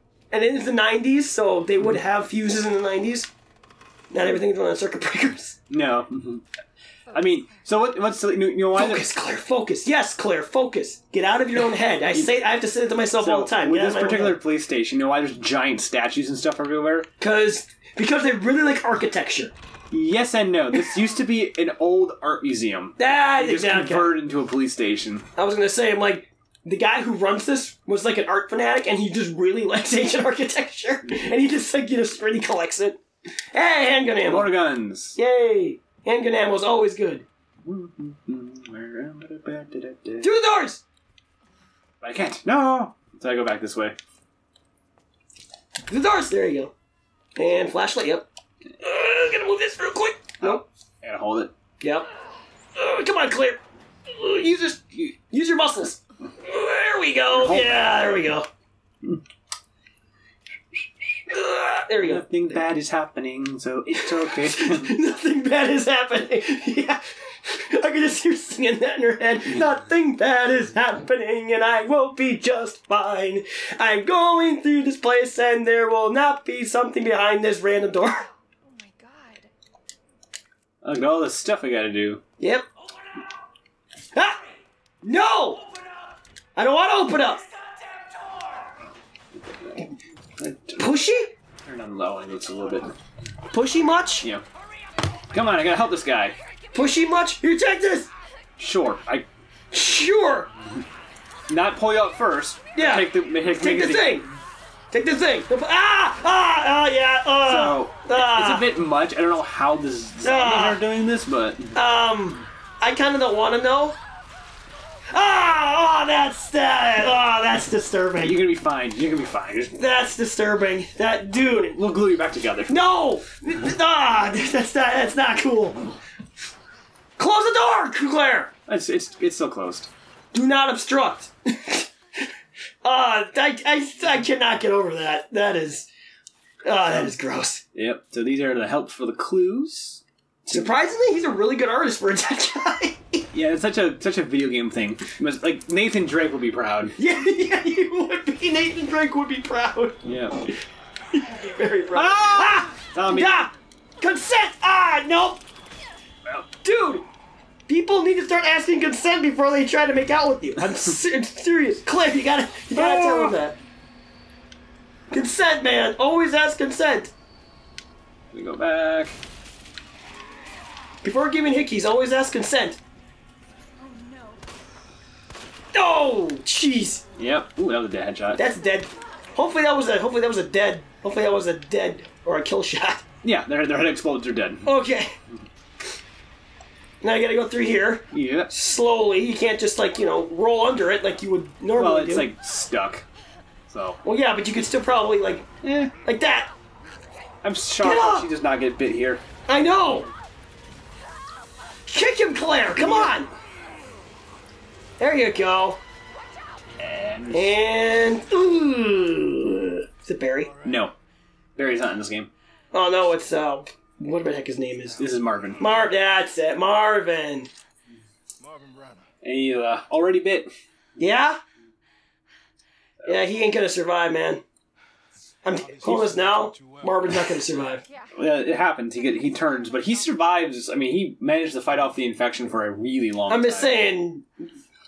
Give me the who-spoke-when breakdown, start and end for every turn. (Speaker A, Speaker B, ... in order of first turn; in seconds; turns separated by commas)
Speaker A: 0.3-3.3, Speaker A: 4.1-5.6, Speaker B: 5.7-6.4, Speaker C: 7.0-7.9, Speaker B: 7.1-9.1, Speaker A: 8.7-14.4, Speaker B: 13.2-17.1, Speaker A: 17.2-19.5, Speaker B: 19.9-25.3, Speaker A: 23.0-24.1, Speaker A: 25.4-33.0, Speaker A: 33.5-34.5, Speaker B: 34.3-35.2, Speaker A: 35.1-37.2, Speaker B: 37.6-40.3, Speaker A: 40.2-40.8, Speaker B: 42.0-44.0, Speaker A: 45.9-46.7, Speaker A: 47.4-48.3, Speaker A: 48.8-50.6, Speaker B: 50.4-51.5, Speaker A: 51.8-52.1, Speaker A: 52.7-58.5, Speaker B: 57.3-58.2, Speaker A: 61.3-62.2, Speaker B: 62.0-64.9, Speaker A: 63.9-78.3, Speaker C: 78.6-79.5, Speaker B: 80.8-82.2, Speaker A: 82.4-82.7, Speaker A: 85.0-85.6, Speaker A: 86.5-87.4, Speaker B: 89.3-89.8, Speaker B: 90.4-90.9, Speaker A: 90.8-91.3, Speaker B: 91.6-92.9, Speaker A: 93.5-94.3, Speaker B: 95.3-96.3, Speaker A: 96.7-98.1, Speaker B: 98.6-99.3, Speaker A: 99.7-100.5, Speaker B: 101.5-104.3, Speaker A: 102.7-104.3, Speaker A: 104.9-108.7, Speaker B: 107.4-111.8, Speaker A: 110.2-110.8, Speaker A: 111.7-114.0, Speaker A: 115.1-118.4, Speaker B: 118.2-119.8, Speaker A: 119.7-121.8, Speaker B: 121.5-122.8, Speaker A: 122.7-125.9, Speaker A: 127.2-128.5, Speaker B: 128.7-129.9, Speaker A: 130.3-132.3, Speaker A: 132.8-135.9, Speaker A: 136.6-137.6, Speaker B: 137.7-140.7, Speaker A: 140.5-143.3, Speaker B: 143.3-146.9, Speaker A: 147.0-150.6, Speaker B: 150.0-150.4, Speaker A: 151.1-155.4, Speaker B: 151.9-153.4, Speaker A: 156.6-157.1, Speaker A: 157.7-163.6, Speaker B: 162.7-163.3, Speaker A: 165.1-167.1, Speaker B: 168.3-169.2, Speaker A: 171.0-172.8, Speaker C: 173.8-174.6, Speaker A: 175.7-177.0, Speaker B: 177.2-178.4, Speaker A: 178.3-183.1, Speaker B: 183.2-184.7, Speaker A: 184.6-185.1, Speaker A: 187.0-192.3, Speaker B: 188.1-188.5, Speaker B: 191.7-193.0, Speaker B: 193.7-194.0, Speaker A: 194.0-195.4, Speaker B: 195.6-195.9, Speaker A: 196.0-196.5, Speaker B: 197.4-199.2, Speaker A: 197.8-198.3, Speaker A: 199.5-200.1, Speaker A: 201.9-203.3, Speaker B: 202.7-203.1, Speaker A: 205.0-205.8, Speaker C: 206.3-206.6, Speaker B: 206.8-207.6, Speaker A: 207.3-210.5, Speaker D: 210.4-210.9, Speaker B: 210.6-210.9, Speaker B: 211.6-212.3, Speaker A: 212.7-215.0, Speaker D: 214.8-216.1, Speaker B: 215.0-215.7, Speaker A: 215.6-217.5, Speaker D: 218.4-219.2, Speaker B: 219.2-220.5, Speaker A: 221.0-221.4, Speaker A: 223.0-224.4, Speaker D: 225.1-227.8, Speaker A: 225.4-227.8, Speaker C: 227.8-228.2, Speaker B: 228.1-233.9, Speaker C: 228.9-230.4, Speaker A: 233.3-234.3